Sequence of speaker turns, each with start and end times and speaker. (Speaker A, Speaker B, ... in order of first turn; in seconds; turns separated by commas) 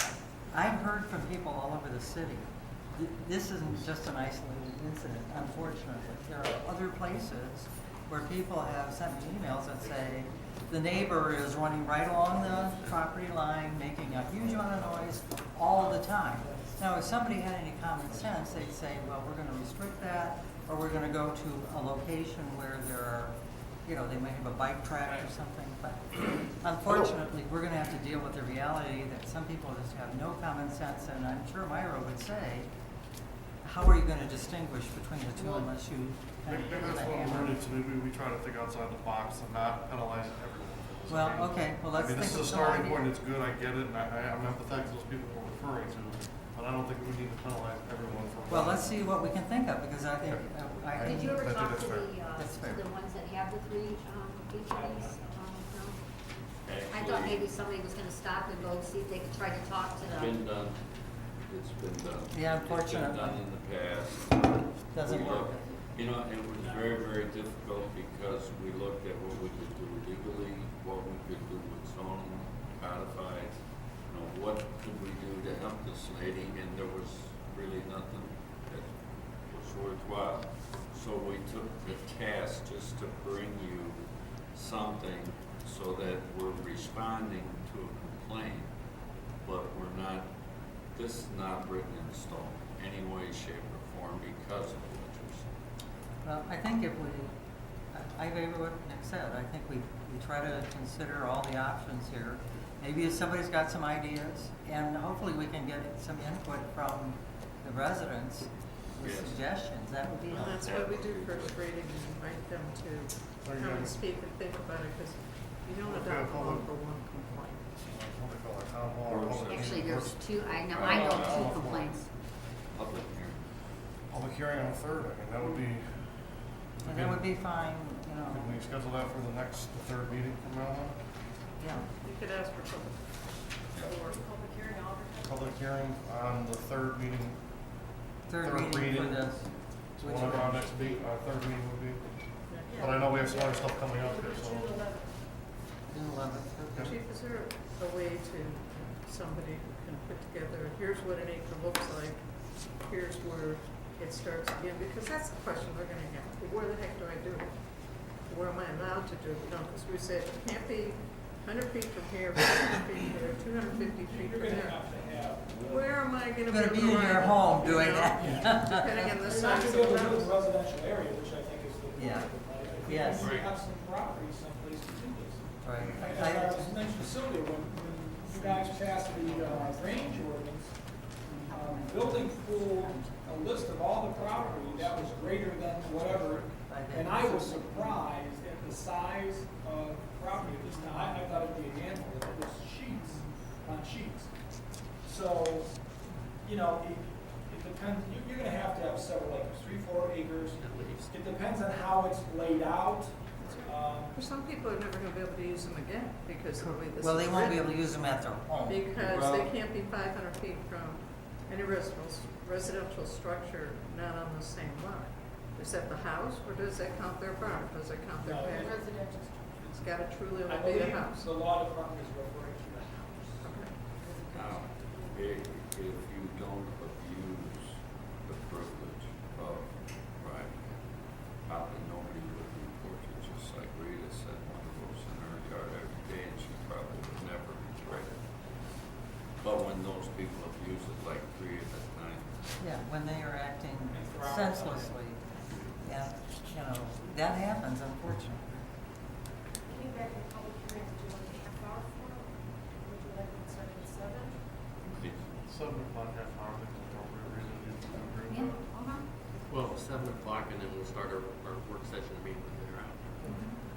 Speaker A: 0.5-32.7, Speaker A: 33.6-37.6, Speaker B: 36.5-48.9, Speaker A: 41.1-43.1, Speaker A: 48.5-51.5, Speaker B: 50.2-52.2, Speaker C: 51.0-56.0, Speaker A: 52.4-52.9, Speaker D: 54.7-55.3, Speaker E: 56.6-57.5, Speaker C: 56.9-60.4, Speaker E: 60.1-60.8, Speaker E: 61.4-78.9, Speaker A: 62.3-63.4, Speaker A: 64.9-65.7, Speaker E: 79.5-88.7, Speaker E: 89.4-90.3, Speaker E: 90.9-95.5, Speaker A: 96.2-97.4, Speaker A: 97.9-110.7, Speaker E: 109.0-109.4, Speaker F: 110.3-117.6, Speaker E: 110.3-111.6, Speaker B: 113.4-114.0, Speaker B: 115.8-116.7, Speaker B: 117.8-122.1, Speaker E: 119.1-119.8, Speaker C: 119.5-122.1, Speaker E: 120.7-121.5, Speaker E: 122.7-123.4, Speaker B: 124.1-127.4, Speaker A: 126.8-128.5, Speaker B: 128.3-131.0, Speaker A: 131.6-131.9, Speaker F: 131.7-134.3, Speaker G: 133.8-135.5, Speaker B: 135.2-137.5, Speaker A: 138.3-140.9, Speaker B: 138.4-139.4, Speaker B: 139.9-144.8, Speaker F: 142.5-143.0, Speaker G: 142.7-145.2, Speaker A: 145.9-146.9, Speaker F: 146.8-164.8, Speaker D: 163.9-165.8, Speaker F: 165.5-170.3, Speaker A: 166.5-169.1, Speaker D: 169.2-180.8, Speaker A: 171.9-172.3, Speaker A: 172.8-173.3, Speaker H: 173.1-173.5, Speaker A: 175.6-176.8, Speaker B: 178.7-180.2, Speaker A: 181.2-183.0, Speaker D: 181.4-194.3, Speaker G: 181.7-182.0, Speaker B: 184.1-186.5, Speaker A: 186.7-188.0, Speaker D: 195.0-195.8, Speaker D: 196.4-204.2, Speaker H: 200.6-201.1, Speaker F: 203.4-207.8, Speaker A: 206.6-208.8, Speaker F: 208.7-219.0, Speaker E: 209.0-209.5, Speaker D: 218.2-218.8, Speaker G: 218.5-219.6, Speaker F: 219.6-221.3, Speaker D: 220.4-223.6, Speaker F: 223.4-223.8, Speaker G: 223.6-225.3, Speaker E: 224.3-230.8, Speaker E: 231.4-238.2, Speaker E: 239.4-242.4, Speaker A: 242.6-248.7, Speaker D: 243.9-245.0, Speaker G: 249.7-254.4, Speaker E: 254.8-255.3, Speaker B: 255.5-258.6, Speaker C: 258.3-259.1, Speaker H: 259.5-263.4